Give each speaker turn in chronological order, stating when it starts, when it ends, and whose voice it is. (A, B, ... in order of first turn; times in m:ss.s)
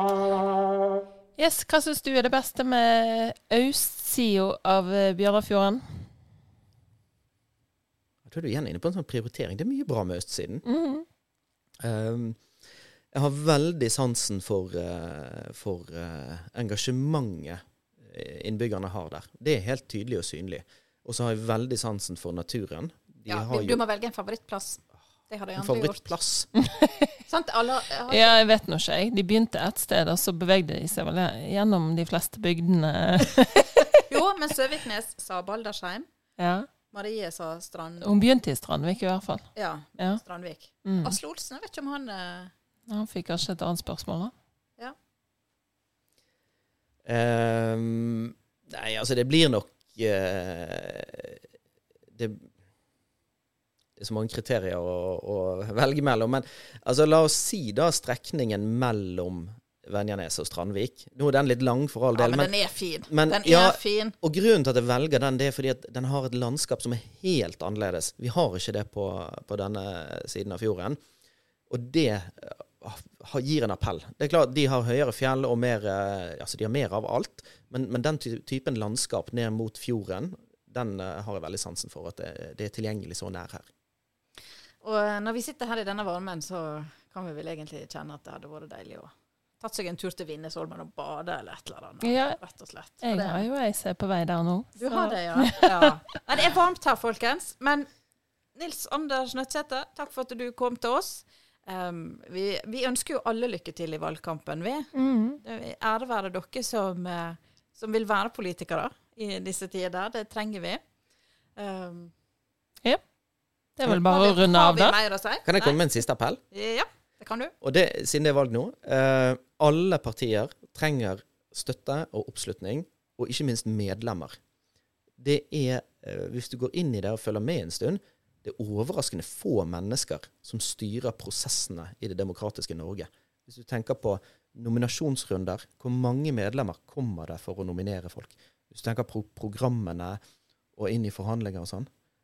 0:01.4-0:06.1 A
0:08.2-0:10.6 B
0:10.6-0:11.0 A
0:11.8-0:12.4 B
0:13.1-0:23.8 B
0:23.3-0:26.1 C
0:25.6-0:26.5 B
0:26.6-0:27.2 A
0:27.3-0:28.4 C
0:28.1-0:33.9 A
0:34.1-0:36.1 C
0:36.4-0:36.7 A
0:36.9-0:38.1 C
0:38.0-0:40.2 A
0:39.5-0:42.5 C
0:40.8-0:41.2 A
0:42.9-0:44.3 A
0:47.0-0:51.4 B
0:52.1-0:52.5 B
0:54.0-1:02.5 B
1:02.1-1:04.2 C
1:03.1-1:11.0 B
1:11.7-1:23.7 B
1:24.8-1:33.4 C
1:32.0-1:32.4 A
1:33.0-1:36.0 A
1:34.8-1:37.9 C
1:38.5-1:50.8 C
1:44.9-1:45.4 A
1:51.6-1:52.1 C
1:53.8-1:55.0 A
1:53.9-1:55.8 C
1:55.4-1:56.4 B
1:56.5-1:57.5 C
1:57.6-2:04.4 B
2:05.2-2:20.2 B
2:20.8-2:21.9 B